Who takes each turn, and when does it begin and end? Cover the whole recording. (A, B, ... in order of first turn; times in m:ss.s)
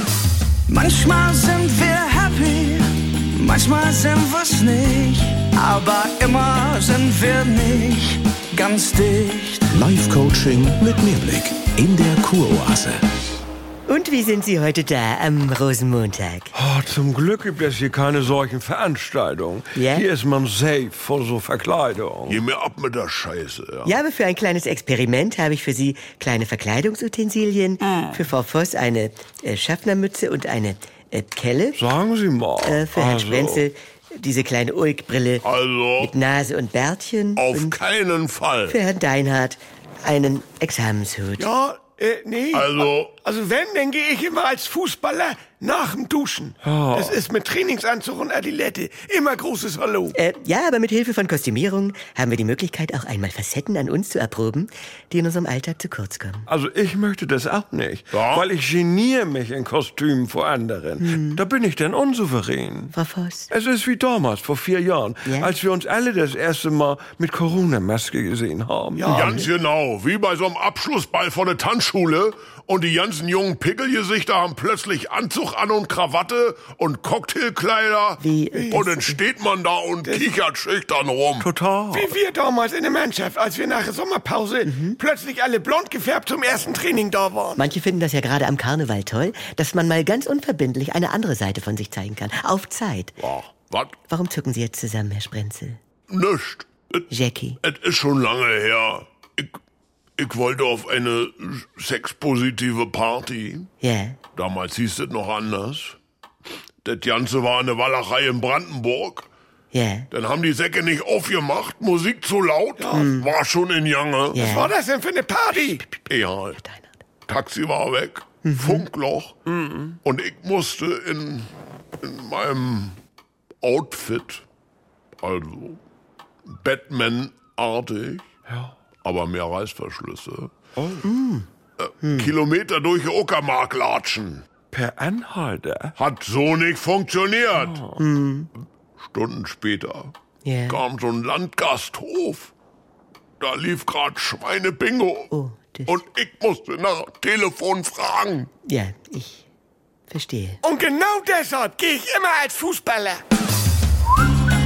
0:00.7-0:09.8 A
0:09.7-0:13.0 B
0:13.9-0:16.5 C
0:16.5-0:22.4 D
0:19.8-0:20.1 C
0:22.3-0:24.0 E
0:23.8-0:31.8 C
0:31.8-0:33.7 D
0:32.6-0:35.5 C
0:35.4-0:36.2 E
0:36.0-0:37.8 C
0:37.4-0:38.8 E
0:38.7-0:41.5 C
0:41.4-0:50.2 F
0:42.5-0:43.2 E
0:46.6-0:47.2 D
0:50.1-0:56.5 C
0:56.5-1:02.9 D
0:58.1-0:58.5 E
1:01.0-1:01.4 C
1:02.9-1:03.5 C
1:03.5-1:09.2 D
1:05.2-1:05.5 C
1:09.0-1:09.5 F
1:09.1-1:09.5 C
1:09.1-1:21.5 E
1:18.2-1:19.2 C
1:18.5-1:18.8 F
1:20.0-1:20.3 F
1:21.4-1:22.2 D
1:21.9-1:27.6 F
1:24.6-1:25.0 C
1:27.6-1:33.2 C
1:33.2-1:34.0 E
1:34.1-1:35.8 C
1:36.1-1:37.1 E
1:37.1-1:37.6 C
1:37.6-1:39.6 E
1:40.2-1:43.7 E
1:43.8-1:44.2 C
1:44.4-1:46.0 E
1:46.8-1:49.3 E
1:49.7-1:50.1 C
1:50.1-1:54.4 E
1:52.8-1:53.1 F
1:52.9-1:53.3 C
1:54.3-1:55.8 F
1:54.3-1:54.7 C
1:55.6-1:57.0 C
1:56.0-1:56.6 E
1:57.3-1:59.4 E
1:58.4-1:58.9 C
1:59.5-1:59.9 D
2:00.0-2:01.5 E
2:02.0-2:03.0 E
2:03.6-2:04.4 E
2:05.2-2:05.8 E
2:06.5-2:08.3 E
2:08.5-2:08.8 D
2:09.0-2:10.6 E
2:10.8-2:11.1 D
2:11.0-2:11.5 C
2:11.8-2:14.4 E
2:12.0-2:12.3 C
2:14.7-2:16.0 D
2:16.0-2:17.8 E
2:17.6-2:18.0 D
2:18.0-2:18.5 C
2:19.0-2:20.1 E
2:20.4-2:20.8 C
2:20.7-2:22.5 E
2:23.4-2:25.3 E
2:25.3-2:26.0 C
2:25.9-2:28.5 E
2:28.7-2:29.5 C
2:30.1-2:30.6 C
2:30.6-2:33.2 F